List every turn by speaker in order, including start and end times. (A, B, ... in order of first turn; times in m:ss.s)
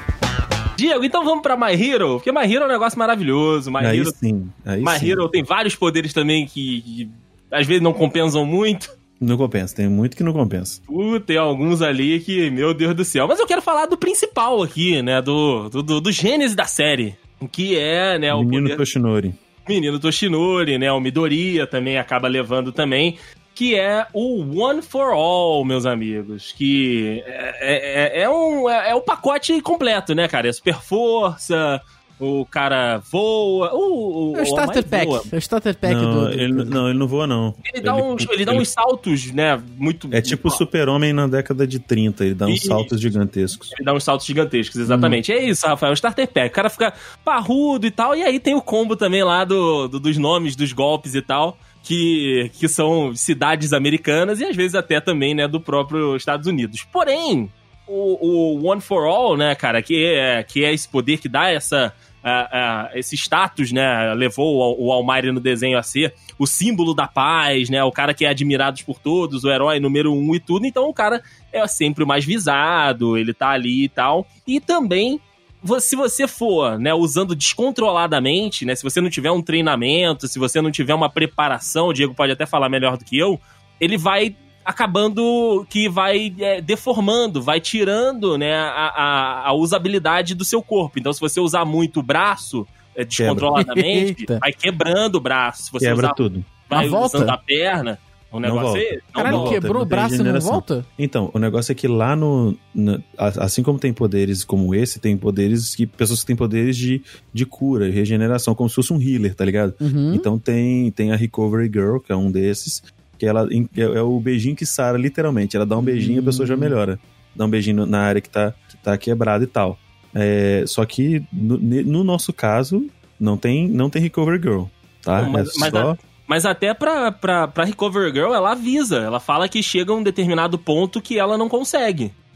0:00.8-0:04.1 A
0:03.8-0:05.2 B
0:04.8-0:08.9 A
0:09.2-0:10.8 B
0:10.9-0:18.8 A
0:18.3-0:19.4 B
0:19.6-0:35.3 A
0:34.3-0:36.8 C
0:35.8-0:38.6 B
0:37.6-0:40.6 A
0:40.1-0:43.7 B
0:42.4-0:42.9 A
0:43.7-1:39.6 A
0:44.9-0:45.2 C
1:33.2-1:33.5 B
1:33.6-1:34.4 C
1:35.8-1:36.5 B
1:36.7-1:37.4 C
1:38.4-2:06.0 B
1:39.2-1:40.8 C
1:49.8-1:50.3 C
1:55.8-1:56.7 C
2:05.2-2:12.1 A